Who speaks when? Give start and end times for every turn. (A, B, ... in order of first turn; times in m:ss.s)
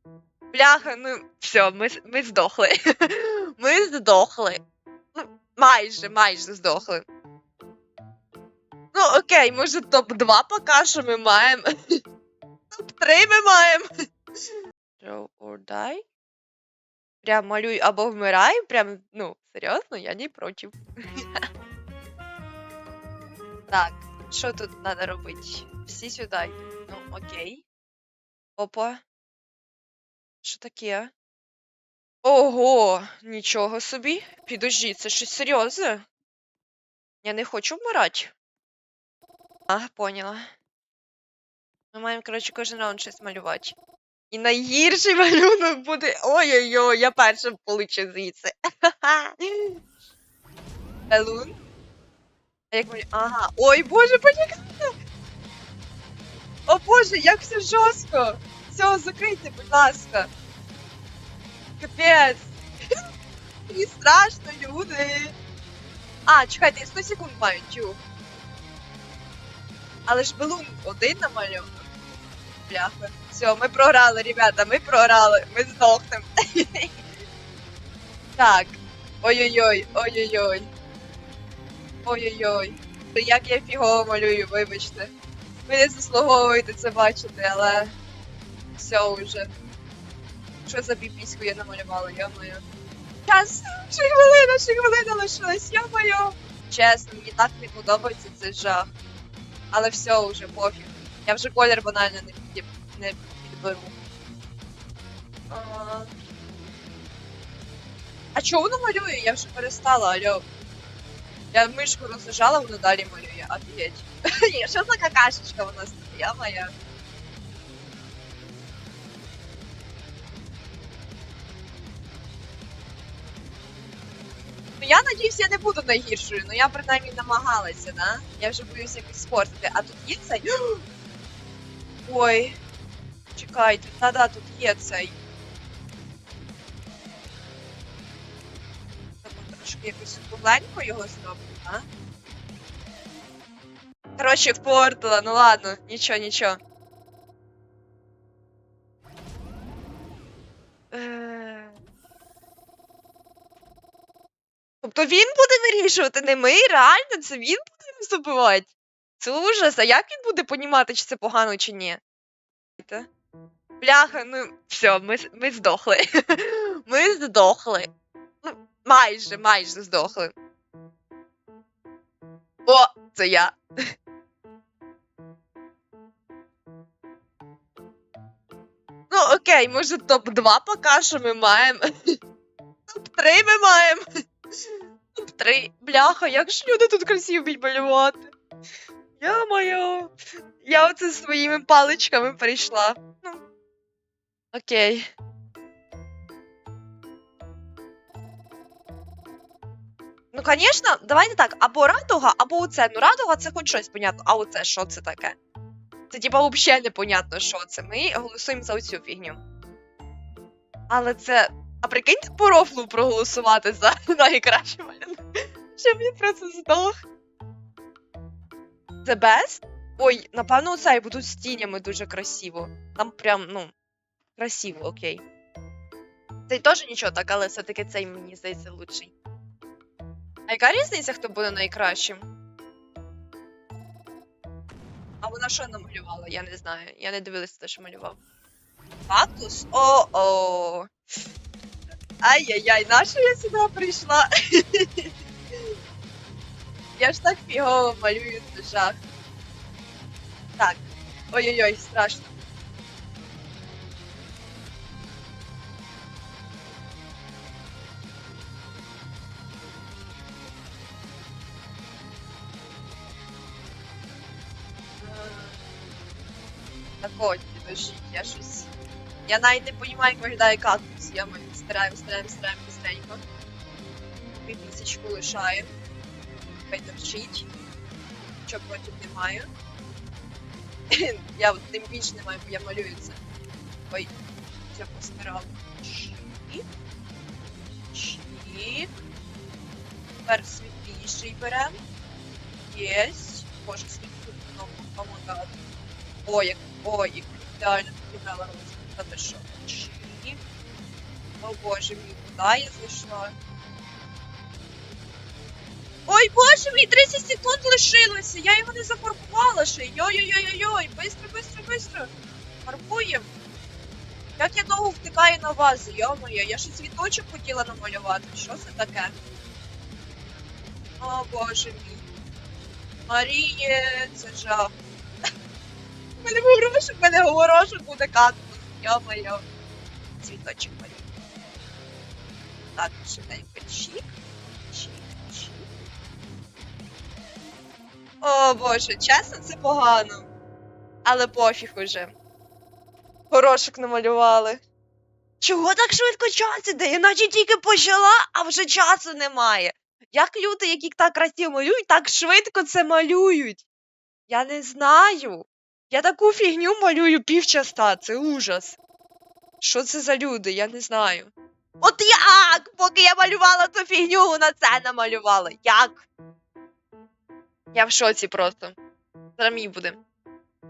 0:00.5-0:04.6 A
0:05.2-0:07.0 A
0:08.9-0:12.0 A
0:12.8-0:13.9 A
0:15.0-0:16.0 A
0:17.2-0:21.5 A
0:23.7-0:27.6 A
0:28.6-0:29.0 A
0:30.4-0:31.1 A
0:32.2-0:36.0 A
0:37.2-0:38.3 A
0:39.7-0:40.5 A
0:41.9-0:43.8 A
0:44.3-0:49.8 A
0:51.1-0:51.5 A
0:52.7-0:54.9 A
0:56.7-1:00.3 A
1:01.8-1:02.6 A
1:03.7-1:05.3 A
1:06.3-1:08.0 A
1:10.1-1:11.9 A
1:12.7-1:17.0 A
1:18.4-1:20.7 A
1:22.0-1:25.1 A
1:25.7-1:27.9 A
1:28.8-1:29.5 A
1:30.6-1:32.6 A
1:33.3-1:38.9 A
1:39.7-1:43.9 A
1:45.5-1:46.1 A
1:48.4-1:50.4 A
1:51.5-1:56.7 A
2:04.8-2:10.8 A
2:12.0-2:12.6 A
2:13.4-2:15.2 A
2:19.2-2:21.8 A
2:24.2-2:26.6 A
2:30.9-2:31.8 A
2:34.8-2:42.0 A
2:42.8-2:43.1 A
2:43.8-2:47.9 A
2:48.4-2:50.3 A
2:52.7-2:53.6 A
2:59.1-3:02.2 A
3:02.9-3:04.0 A
3:05.2-3:08.3 A
3:09.2-3:10.1 A
3:10.6-3:13.4 A
3:14.5-3:15.1 A
3:20.3-3:25.4 A
3:26.1-3:29.4 A
3:30.9-3:35.2 A
3:35.7-3:37.0 A
3:39.0-3:43.7 A
3:44.4-3:45.2 A
3:46.5-3:49.1 A
3:50.5-3:52.2 A
3:55.2-3:58.2 A
3:59.1-4:00.9 A
4:02.2-4:05.1 A
4:07.0-4:09.0 A
4:10.6-4:12.3 A
4:25.0-4:25.6 A
4:27.0-4:28.7 A
4:29.3-4:33.2 A
4:34.2-4:35.7 A
4:36.7-4:37.5 A
4:38.5-4:39.5 A
4:40.9-4:43.2 A
4:44.7-4:46.7 A
4:47.8-4:48.9 A
4:50.2-4:51.8 A
4:52.6-4:55.5 A
4:56.2-5:00.4 A
5:01.4-5:03.3 A
5:06.1-5:12.1 A
5:12.6-5:13.3 A
5:14.4-5:19.2 A
5:21.0-5:22.0 A
5:23.1-5:24.7 A
5:26.2-5:29.4 A
5:30.2-5:31.1 A
5:32.8-5:34.1 A
5:34.7-5:35.7 A
5:38.2-5:40.3 A
5:41.0-5:42.1 A
5:43.3-5:44.6 A
5:45.4-5:53.6 A
5:54.3-5:58.8 A
5:59.6-6:06.0 A
6:07.7-6:08.8 A
6:09.4-6:10.0 A